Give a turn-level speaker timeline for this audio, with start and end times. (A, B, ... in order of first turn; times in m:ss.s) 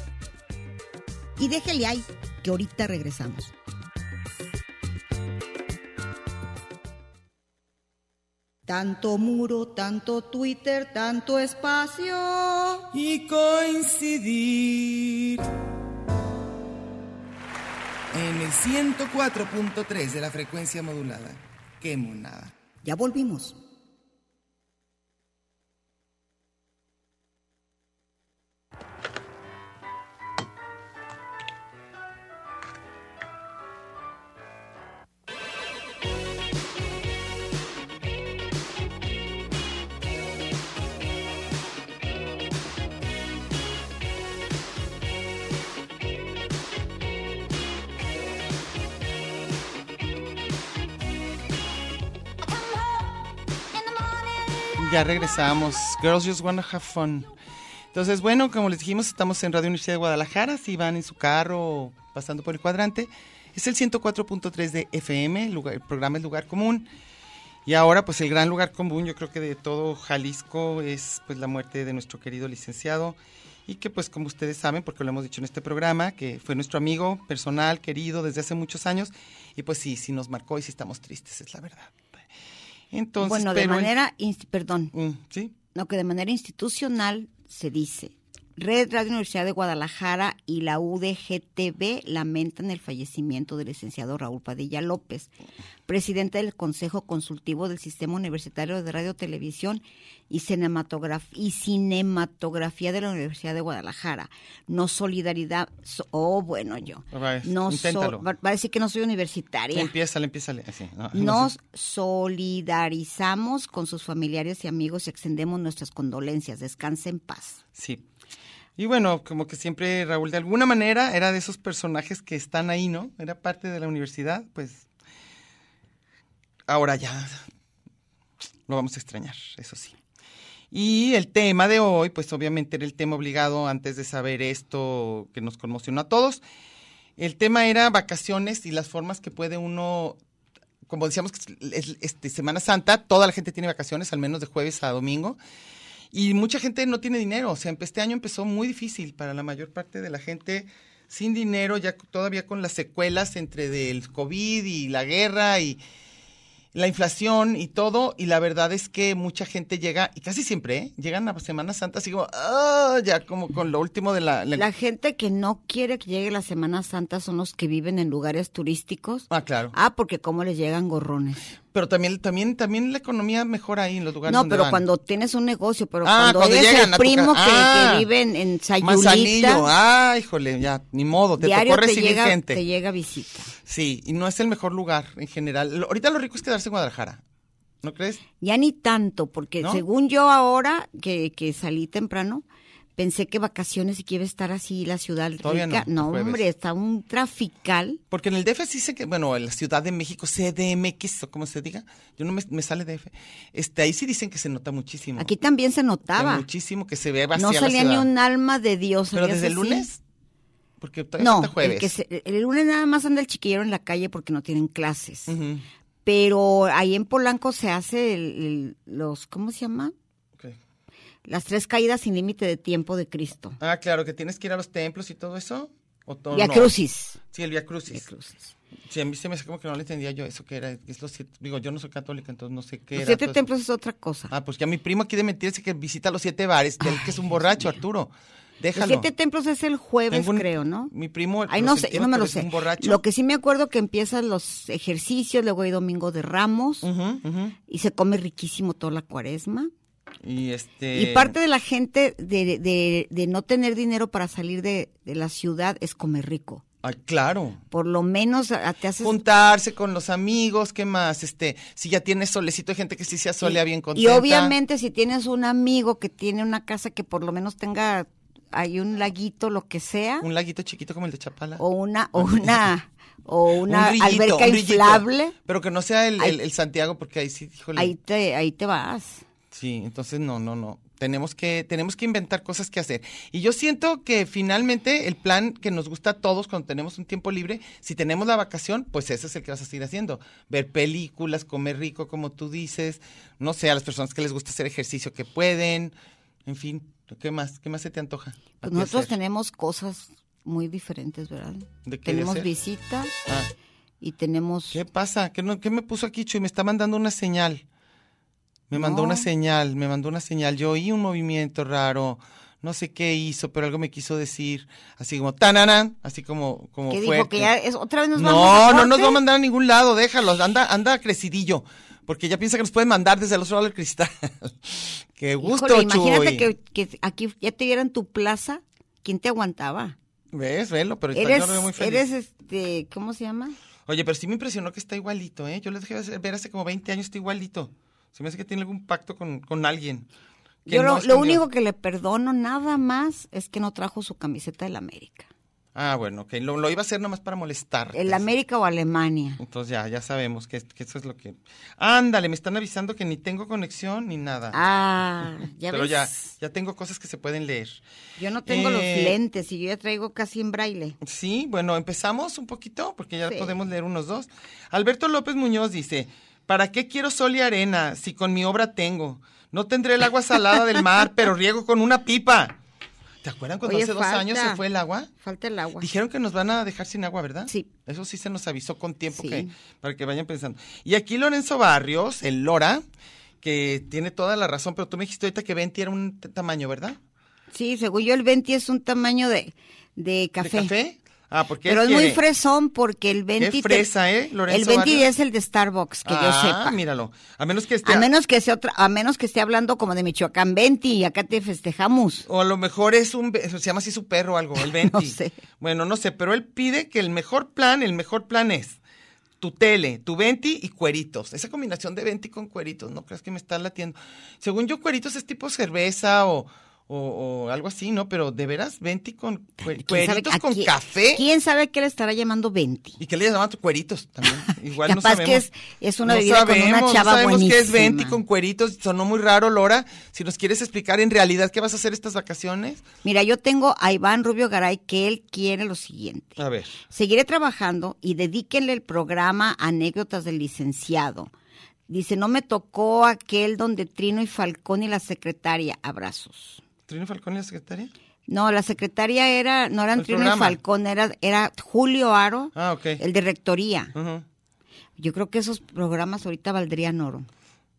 0:01.4-0:03.5 A
0:08.7-0:12.8 A
0:12.9-0:15.5 B
0:18.1-0:22.6 B
0:22.8-0:23.6 A
0:54.8-0:57.3 B
0:57.9-1:06.9 B
1:07.7-1:22.2 B
1:22.9-1:23.9 B
1:23.2-1:24.9 C
1:24.9-1:25.6 B
1:25.7-1:35.3 C
1:35.9-1:49.9 C
1:47.1-1:48.2 B
1:49.7-1:51.5 B
1:51.1-1:57.6 C
1:57.8-1:58.0 B
1:58.8-2:04.9 B
2:06.7-2:07.4 B
2:08.7-2:10.0 B
2:10.7-2:16.4 B
2:17.2-2:20.2 B
2:20.9-2:25.4 B
2:26.1-2:35.8 B
2:36.7-2:44.6 B
2:44.6-2:51.5 C
2:49.3-2:49.7 B
2:51.7-2:54.8 B
2:54.3-2:59.7 C
2:56.0-2:58.1 B
2:58.8-3:02.6 B
3:01.4-3:03.5 C
3:03.6-3:07.2 B
3:07.8-3:08.2 B
3:08.4-3:12.4 C
3:09.6-3:09.8 B
3:13.0-3:18.0 C
3:15.4-3:16.4 B
3:18.1-3:25.3 B
3:25.2-3:26.5 C
3:26.2-3:28.1 B
3:27.4-3:29.9 C
3:29.1-3:30.0 B
3:30.8-3:31.9 B
3:31.2-3:35.4 C
3:35.3-3:35.6 B
3:36.0-3:39.9 C
3:41.2-3:43.6 C
3:43.6-3:46.7 B
3:46.3-3:47.2 C
3:47.3-3:48.1 B
3:47.9-3:48.5 C
3:48.9-3:53.4 B
3:52.9-3:54.3 C
3:54.3-3:59.1 B
3:56.8-3:57.8 C
3:58.8-4:00.9 C
4:00.1-4:03.0 B
4:01.5-4:06.9 C
4:06.8-4:07.6 B
4:07.7-4:09.7 C
4:10.2-4:11.4 B
4:10.9-4:16.6 C
4:16.8-4:17.6 B
4:17.7-4:19.2 C
4:19.0-4:24.6 B
4:23.4-4:30.3 C
4:30.2-4:31.6 B
4:31.6-4:35.4 C
4:32.2-4:32.7 B
4:33.6-4:37.9 B
4:37.8-4:39.2 C
4:39.5-4:55.9 B
4:56.5-4:59.1 B
4:58.6-5:03.1 C
5:01.8-5:02.5 B
5:04.0-5:04.8 C
5:04.7-5:07.6 B
5:08.7-5:17.5 B
5:08.7-5:09.3 C
5:16.9-5:19.2 C
5:18.2-5:26.5 B
5:25.4-5:30.0 C
5:30.3-5:32.1 B
5:31.1-5:33.6 C
5:33.9-5:40.1 B
5:40.7-5:41.4 B
5:40.7-5:45.3 C
5:45.8-5:48.3 B
5:47.9-5:49.4 C
5:49.4-5:54.6 B
5:54.5-5:56.3 C
5:55.7-5:57.8 B
5:58.2-6:01.0 C
5:58.5-5:59.2 B
6:01.0-6:12.6 B
6:03.3-6:03.5 C
6:13.2-6:15.1 B
6:13.6-6:14.6 C
6:15.2-6:15.9 C
6:15.8-6:22.8 B
6:19.1-6:19.5 C
6:23.4-6:27.0 B
6:27.5-6:30.7 C
6:30.4-6:32.2 B
6:31.7-6:33.9 C
6:33.4-6:35.1 B
6:34.5-6:36.8 C
6:36.0-6:38.1 B
6:37.8-6:42.3 C
6:42.3-6:48.8 B
6:44.6-6:45.3 C
6:49.4-7:01.2 B
6:59.7-7:03.0 C
7:03.0-7:05.5 B
7:04.8-7:08.2 C
7:06.0-7:12.8 B
7:13.0-7:21.3 C
7:16.4-7:16.8 B
7:21.9-7:26.6 C
7:26.9-7:27.9 B
7:28.3-7:33.9 C
7:30.0-7:30.6 B
7:32.6-7:33.0 B
7:33.9-7:34.2 B
7:35.0-7:37.3 C